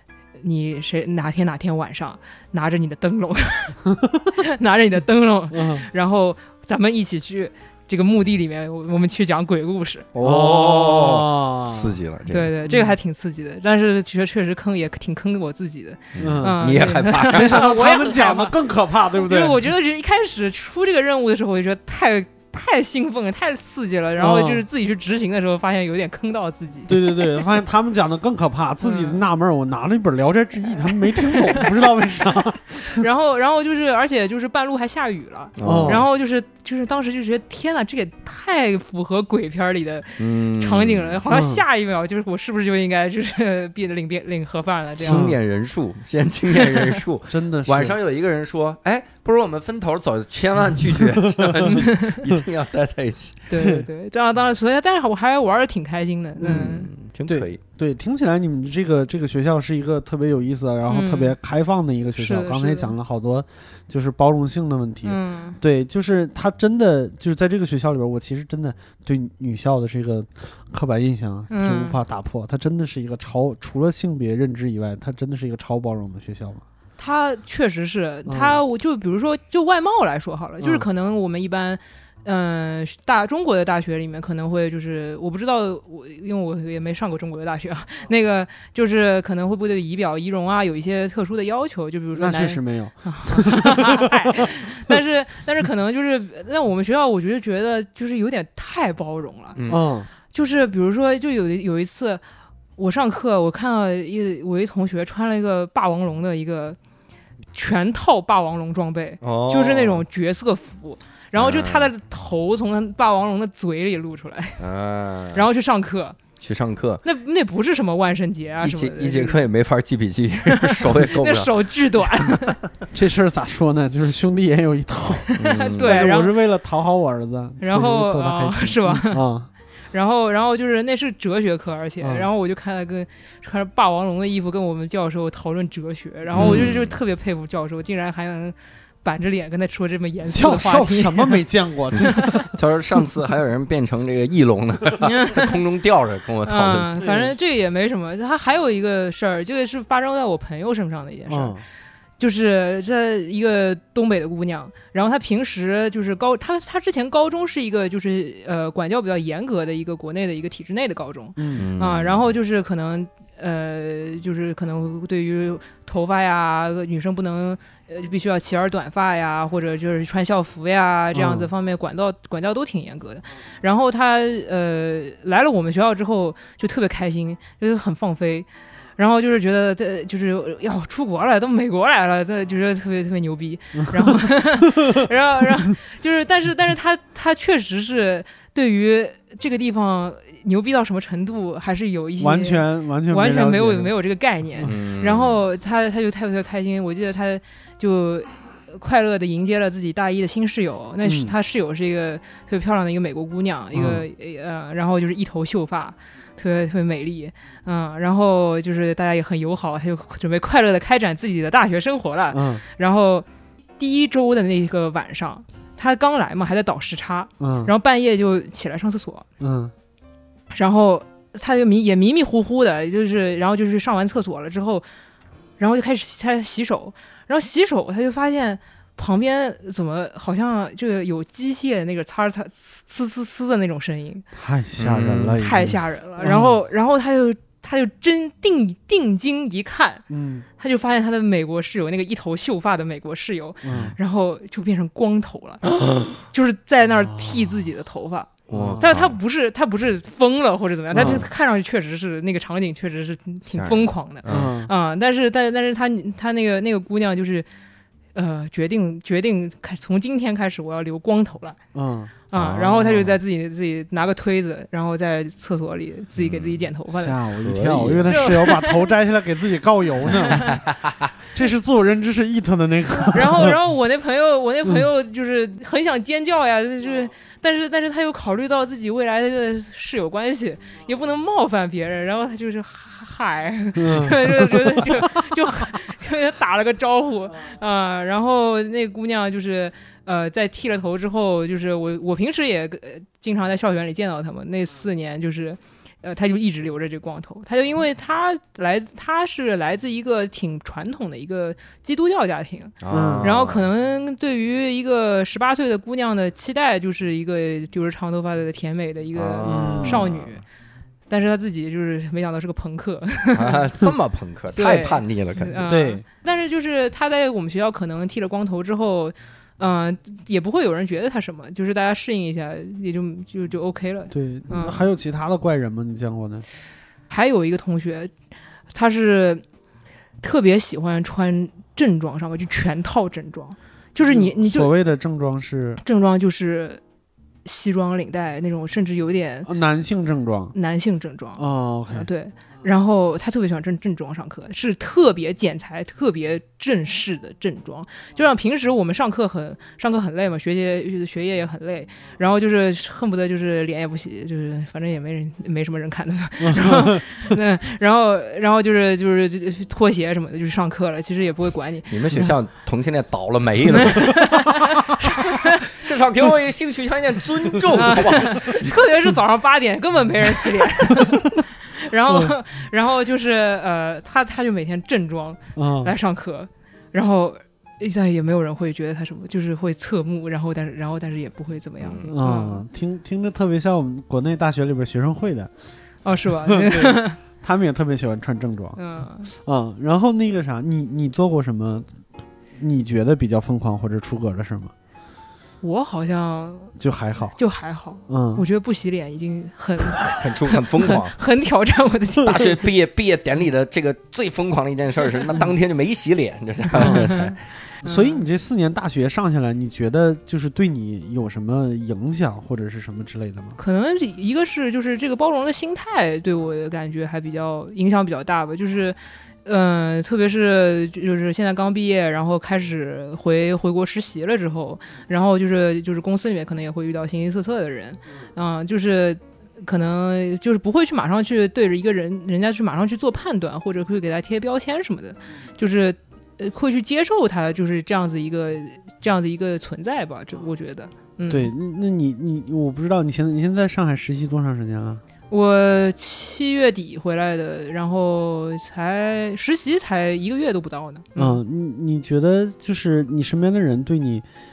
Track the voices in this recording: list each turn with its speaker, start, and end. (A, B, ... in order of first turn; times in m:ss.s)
0:00.4-0:10.1 A
0:05.5-0:05.9 B
0:10.1-0:12.5 C
0:10.2-0:12.0 B
0:12.3-0:18.6 A
0:12.7-0:13.0 B
0:16.1-0:17.6 C
0:16.2-0:16.7 B
0:17.3-0:19.6 B
0:19.1-0:27.2 A
0:24.2-0:24.6 B
0:26.9-0:33.0 B
0:28.8-0:29.2 A
0:31.2-0:31.7 A
0:32.8-0:45.3 A
0:35.6-0:36.0 C
0:35.6-0:36.0 B
0:40.2-0:41.2 C
0:41.3-0:41.6 B
0:45.0-0:53.5 C
0:45.1-0:45.4 B
0:47.3-0:48.0 B
0:51.1-0:51.8 B
0:51.7-0:52.2 A
0:53.5-0:56.9 A
0:53.6-0:53.9 B
0:56.4-0:56.7 B
0:56.4-0:57.6 C
0:57.3-1:16.6 B
1:00.9-1:01.4 A
1:02.2-1:03.0 A
1:05.0-1:05.6 A
1:11.5-1:12.0 A
1:17.0-1:39.6 A
1:18.3-1:18.6 B
1:20.6-1:20.9 B
1:32.2-1:34.6 B
1:39.6-1:39.9 C
1:39.7-1:40.1 B
1:40.3-1:42.2 A
1:42.8-1:46.8 A
1:47.5-1:54.6 A
1:49.2-1:50.0 C
1:51.4-1:51.9 C
1:54.6-1:55.4 C
1:55.3-1:56.2 A
1:56.4-1:57.0 C
1:57.0-1:59.4 A
1:58.6-2:01.5 C
2:00.5-2:02.6 A
2:02.9-2:09.5 B
2:05.4-2:05.9 C
2:05.4-2:06.3 A
2:07.6-2:09.3 A
2:09.9-2:21.4 A
2:12.0-2:12.3 B
2:16.3-2:17.0 C
2:16.4-2:16.7 B
2:20.2-2:22.5 B
2:22.0-2:22.2 A
2:22.0-2:26.9 C
2:25.0-2:25.6 A
2:26.4-2:31.6 A
2:27.0-2:27.3 B
2:31.3-2:31.6 B
2:32.2-3:33.3 A
2:41.4-2:41.7 B
2:41.6-2:42.3 C
2:51.1-2:51.5 B
3:03.9-3:05.0 B
3:12.2-3:13.9 B
3:14.6-3:15.4 C
3:21.0-3:21.3 B
3:23.7-3:24.0 B
3:32.3-3:32.6 B
3:33.8-3:39.3 A
3:37.4-3:37.7 B
3:39.4-3:39.7 B
3:40.5-3:44.9 A
3:45.6-3:54.2 A
3:54.4-3:56.6 B
3:54.8-3:55.4 C
3:55.4-4:00.0 A
4:00.1-4:00.4 B
4:00.6-4:17.5 A
4:03.6-4:04.0 B
4:05.8-4:06.1 C
4:07.1-4:07.3 B
4:08.5-4:09.2 C
4:08.5-4:08.9 B
4:10.9-4:11.3 B
4:11.0-4:11.3 C
4:13.5-4:14.6 C
4:14.3-4:14.7 B
4:18.2-4:21.6 A
4:21.7-4:22.1 B
4:22.3-4:27.2 A
4:22.3-4:23.1 C
4:26.2-4:26.7 C
4:26.9-4:30.6 B
4:27.4-4:28.3 C
4:28.1-4:28.9 A
4:30.1-4:30.6 A
4:30.5-4:30.9 C
4:31.3-4:33.6 B
4:33.0-5:10.4 A
4:43.8-4:44.6 B
5:02.8-5:03.7 C
5:02.9-5:03.3 B
5:09.1-5:10.4 C
5:09.4-5:10.0 B
5:11.1-5:13.7 A
5:13.3-5:15.7 C
5:14.6-5:24.8 A
5:15.6-5:16.0 B
5:24.1-5:26.5 B
5:27.1-5:28.1 A
5:28.7-5:29.4 A
5:30.2-5:34.7 A
5:34.0-5:35.8 B
5:35.8-5:36.8 A
5:37.4-5:39.5 A
5:39.5-5:40.6 B
5:40.5-6:02.2 A
5:41.4-5:42.1 B
5:56.4-5:57.3 B
6:01.9-6:08.8 C
6:03.7-6:05.6 A
6:07.7-6:22.6 A
6:15.6-6:15.9 B
6:21.8-6:22.1 C
6:22.0-6:25.5 B
6:26.0-6:27.2 A
6:26.4-6:28.8 B
6:28.8-6:29.3 A
6:29.3-6:31.9 B
6:32.6-6:34.7 B
6:35.6-6:36.8 A
6:36.8-6:37.4 B
6:37.4-6:42.5 A
6:38.1-6:38.4 B
6:40.1-6:41.2 C
6:42.2-6:47.4 C
6:46.7-6:48.2 A
6:46.8-6:47.1 B
6:47.8-6:53.6 B
6:53.6-7:21.5 A
7:21.3-7:25.0 B
7:25.3-7:31.4 A
7:31.2-7:34.2 B